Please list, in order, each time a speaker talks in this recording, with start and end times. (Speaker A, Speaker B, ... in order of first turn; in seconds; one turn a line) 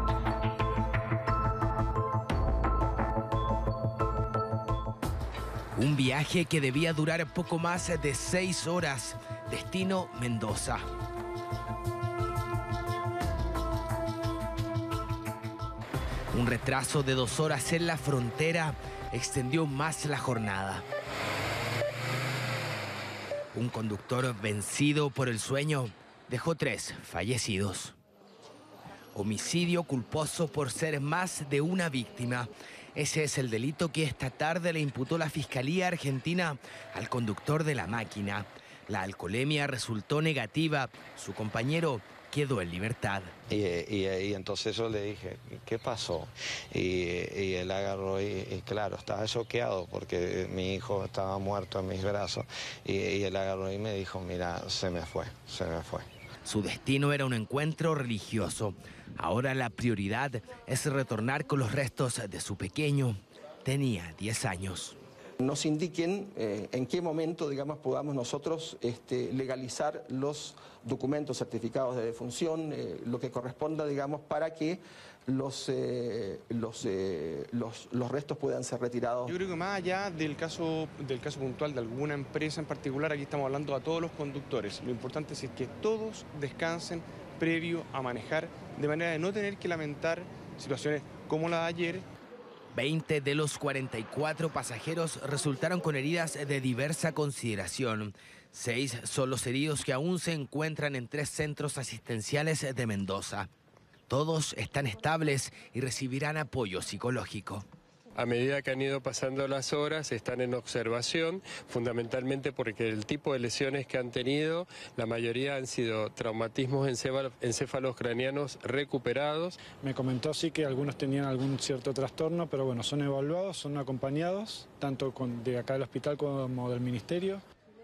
Speaker A: 5.8-10.9
Speaker A: 16.3-20.9
Speaker A: 23.5-28.0
Speaker A: 29.1-43.3
Speaker B: 43.5-56.1
Speaker A: 56.5-65.0
Speaker C: 65.4-79.3
Speaker D: 79.3-92.0
Speaker A: 92.7-103.5
Speaker A: 104.1-107.7
Speaker E: 108.2-119.6
Speaker F: 119.7-127.4